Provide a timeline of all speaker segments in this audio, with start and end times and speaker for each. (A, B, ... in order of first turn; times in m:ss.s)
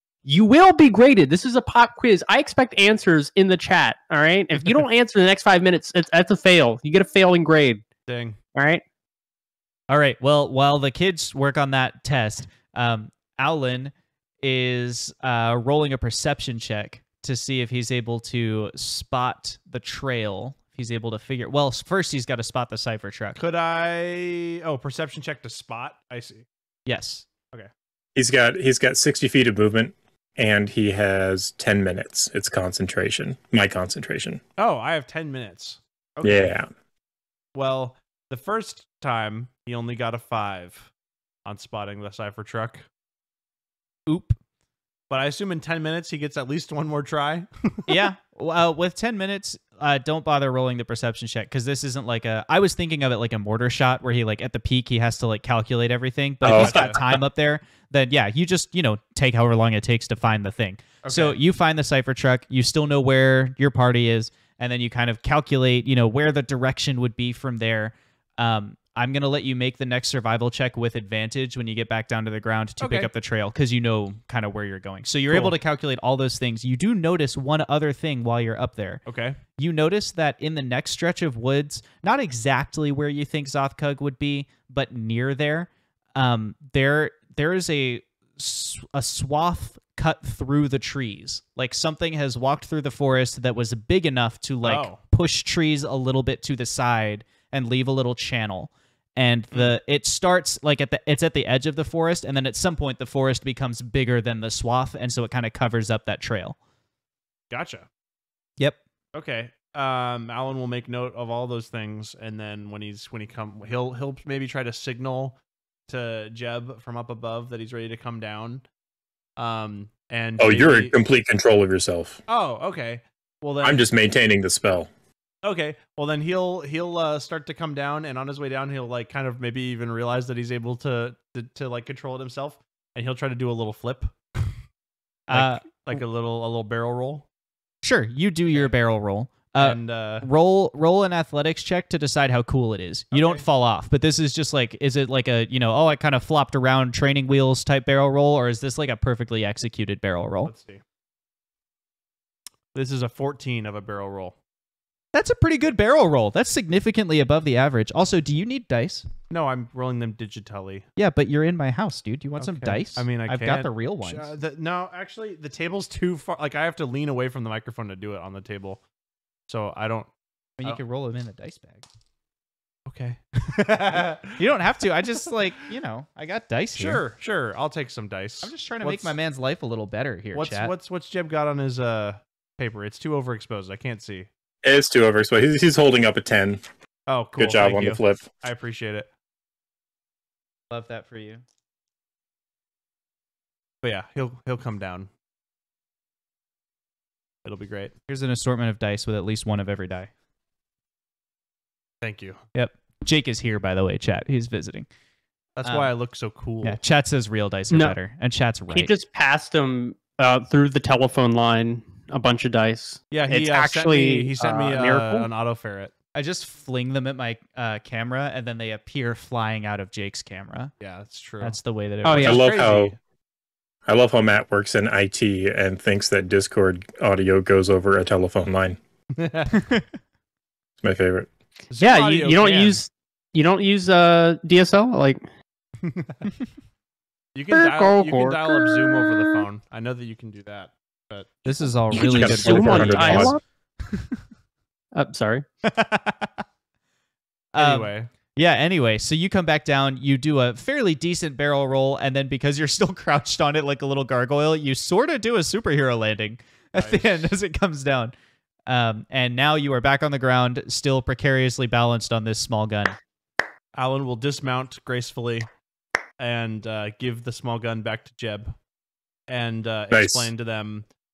0:00.2-0:07.8 A
0:08.1-0:08.4 B
0:08.6-0:08.8 A
0:09.9-0:23.4 C
0:23.4-0:26.5 B
0:26.9-0:27.3 C
0:28.2-0:34.4 D
0:34.6-0:36.5 B
0:36.2-0:36.7 D
0:37.5-0:40.9 B
0:41.4-0:42.9 B
0:44.1-0:44.4 C
0:45.1-0:48.0 B
0:47.9-1:19.0 C
0:56.4-0:57.2 D
0:56.5-0:57.0 B
1:01.0-1:01.4 B
1:12.8-1:13.1 B
1:15.3-1:15.6 B
1:19.1-1:19.4 B
1:19.6-1:46.6 C
1:34.6-1:35.0 B
1:47.5-1:47.9 B
1:49.1-1:55.4 B
1:55.9-1:58.6 B
1:59.4-2:01.0 B
2:00.4-2:02.2 D
2:02.3-2:03.9 B
2:03.6-2:04.9 D
2:05.4-2:14.6 B
2:15.3-2:16.0 C
2:15.3-2:17.3 B
2:17.8-2:30.5 C
2:19.6-2:20.3 B
2:23.1-2:23.4 B
2:30.4-2:30.8 B
2:32.7-2:34.4 B
2:35.1-2:39.1 C
2:39.3-2:40.9 B
2:41.0-2:44.3 C
2:42.4-2:48.8 B
2:49.5-2:50.1 B
2:50.6-2:51.9 C
2:52.9-2:54.5 B
2:54.4-2:57.0 C
2:56.8-2:59.2 B
2:58.4-3:00.7 C
3:00.3-3:04.3 B
3:04.6-3:06.6 D
3:07.1-3:09.1 B
3:07.4-3:08.3 D
3:10.7-3:11.4 C
3:13.8-3:15.1 B
3:17.4-3:17.9 B
3:18.1-3:20.1 C
3:22.0-3:22.4 B
3:22.6-3:24.9 C
3:25.6-3:26.8 B
3:25.6-3:25.9 C
3:26.6-3:28.9 C
3:27.7-3:28.0 A
3:28.7-3:35.3 A
3:33.1-3:35.9 B
3:36.2-3:40.7 C
3:40.8-3:43.0 B
3:41.4-3:42.5 C
3:42.0-3:42.4 A
3:42.2-3:43.0 D
3:43.9-3:48.8 D
3:49.2-3:49.7 B
3:50.8-3:51.3 D
3:51.7-3:52.8 B
3:51.8-3:55.2 A
3:55.8-3:56.3 B
3:57.3-4:01.8 B
3:57.5-3:59.4 A
4:01.4-4:03.4 C
4:01.9-4:03.4 D
4:02.0-4:03.4 A
4:04.9-4:05.5 A
4:05.8-4:06.3 C
4:07.5-4:18.1 C
4:07.6-4:08.1 B
4:16.8-4:17.3 B
4:18.7-4:23.0 C
4:23.8-4:25.5 B
4:26.2-4:28.6 B
4:29.3-4:30.9 B
4:29.9-4:30.3 D